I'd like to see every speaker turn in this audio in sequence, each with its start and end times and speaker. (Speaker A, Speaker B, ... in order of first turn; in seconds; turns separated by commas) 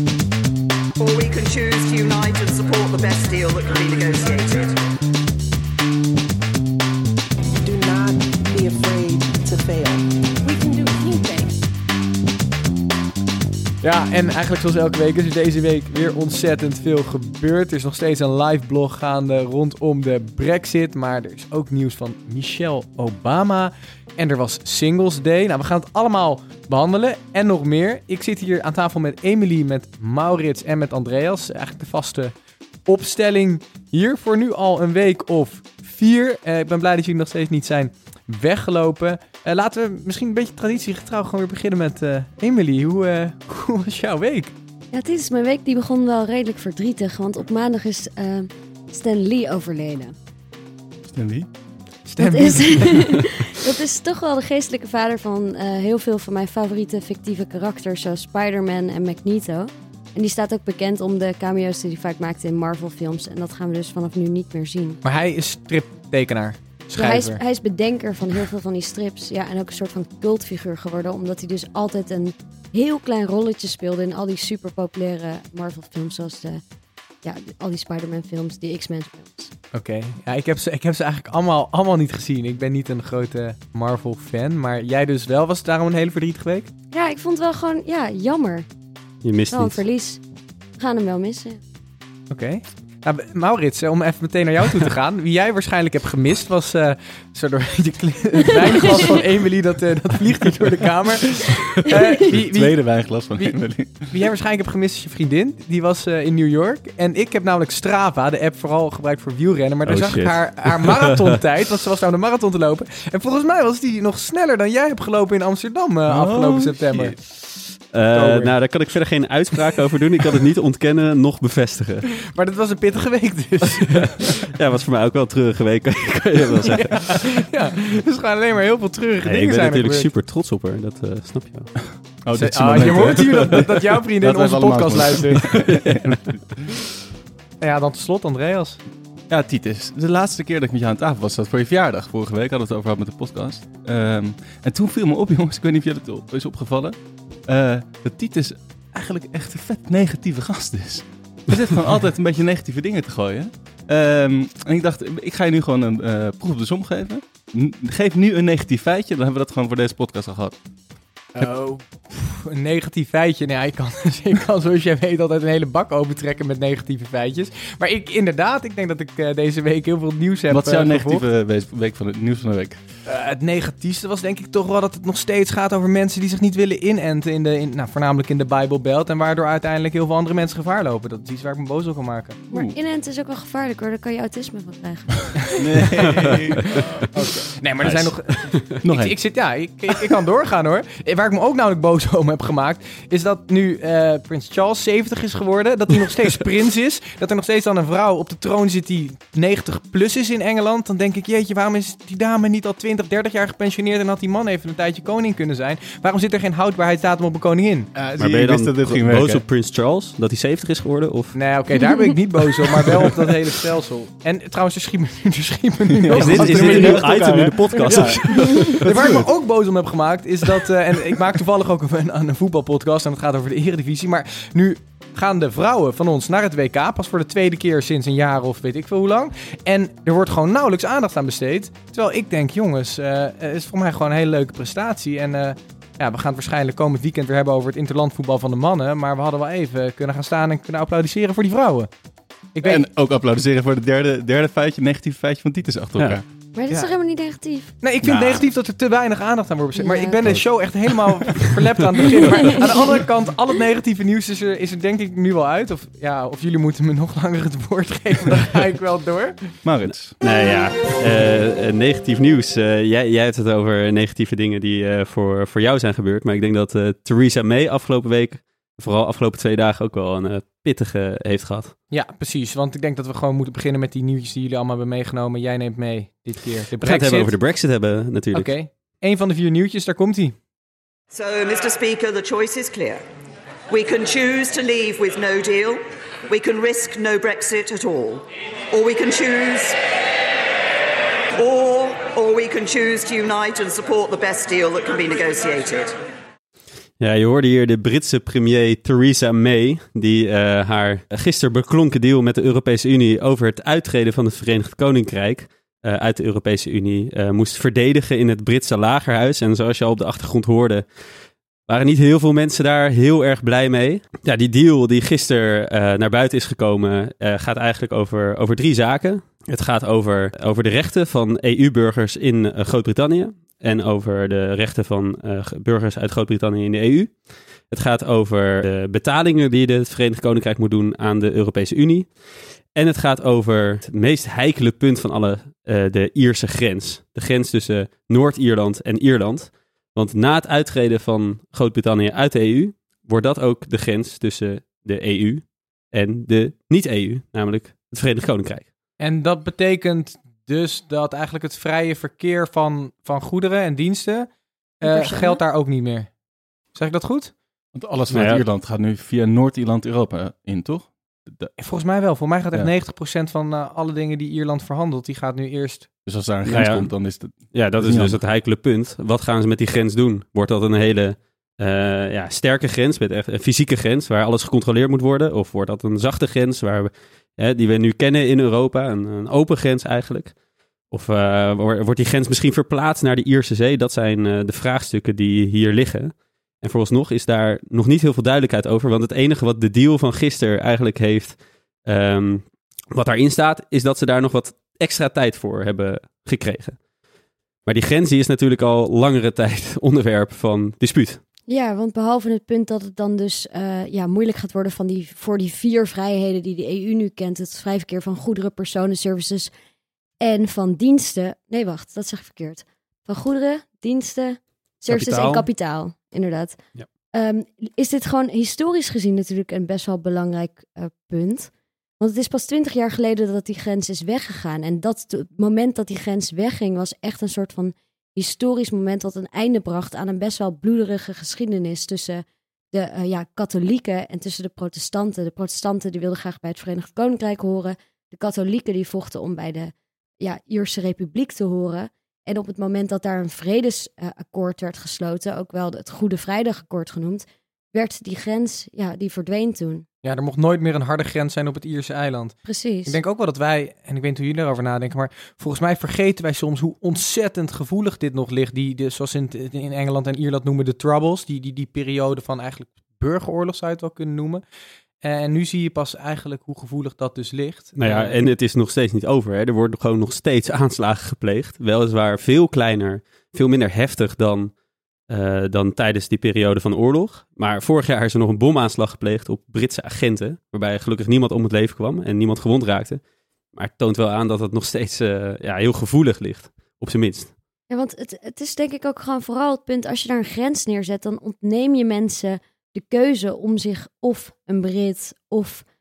Speaker A: 1.0-4.8, Speaker B: 7.6-11.5, Speaker C: 13.8-32.3, Speaker C: 32.9-44.5, Speaker D: 44.9-50.1, Speaker E: 51.1-51.5, Speaker C: 52.1-53.2, Speaker D: 52.2-65.0, Speaker C: 65.0-67.4, Speaker D: 66.9-76.6, Speaker D: 77.2-79.5, Speaker C: 79.7-86.7, Speaker D: 86.9-88.7, Speaker F: 89.2-89.8, Speaker D: 89.5-90.2, Speaker D: 90.8-91.6, Speaker C: 92.3-117.2, Speaker E: 102.3-104.1, Speaker F: 109.8-111.3, Speaker E: 116.1-117.2, Speaker F: 117.9-122.2, Speaker C: 118.1-118.5, Speaker C: 122.1-124.3, Speaker F: 123.8-127.4, Speaker C: 126.7-130.1, Speaker F: 129.2-131.8, Speaker E: 132.2-136.4, Speaker C: 132.3-135.7, Speaker F: 135.4-136.1, Speaker C: 137.6-138.8, Speaker E: 139.3-160.6, Speaker C: 161.3-171.2, Speaker E: 170.5-172.8, Speaker C: 173.1-182.4, Speaker D: 182.5-185.6, Speaker E: 185.6-188.1, Speaker C: 186.3-207.9, Speaker F: 188.3-188.8, Speaker E: 188.8-189.2, Speaker E: 207.9-209.4, Speaker F: 208.2-211.4, Speaker C: 211.3-241.9, Speaker D: 211.7-212.1, Speaker E: 215.9-217.3, Speaker F: 216.1-218.9, Speaker E: 217.9-219.2, Speaker C: 242.5-242.8, Speaker E: 242.6-246.2, Speaker D: 246.5-247.7, Speaker C: 247.8-259.6, Speaker E: 248.0-248.4, Speaker D: 249.8-250.2, Speaker E: 259.6-260.2, Speaker F: 260.2-271.7, Speaker C: 271.9-277.3, Speaker F: 276.8-278.5, Speaker C: 278.3-280.4, Speaker A: 281.1-283.0, Speaker A: 283.7-289.8, Speaker A: 291.4-295.9, Speaker F: 297.0-310.9, Speaker F: 311.7-348.7, Speaker C: 349.0-356.1, Speaker D: 354.8-355.4, Speaker C: 356.7-357.3, Speaker E: 357.7-361.5, Speaker F: 358.1-358.4, Speaker C: 361.6-366.0, Speaker E: 366.0-368.2, Speaker F: 366.4-380.4, Speaker F: 380.9-396.8, Speaker F: 397.6-401.2, Speaker D: 401.5-409.5, Speaker D: 410.2-449.8, Speaker F: 414.9-415.5, Speaker C: 450.0-464.4, Speaker D: 452.4-453.0, Speaker C: 465.0-468.2, Speaker F: 467.8-474.5, Speaker F: 475.1-483.0, Speaker F: 483.5-487.3, Speaker D: 487.7-495.6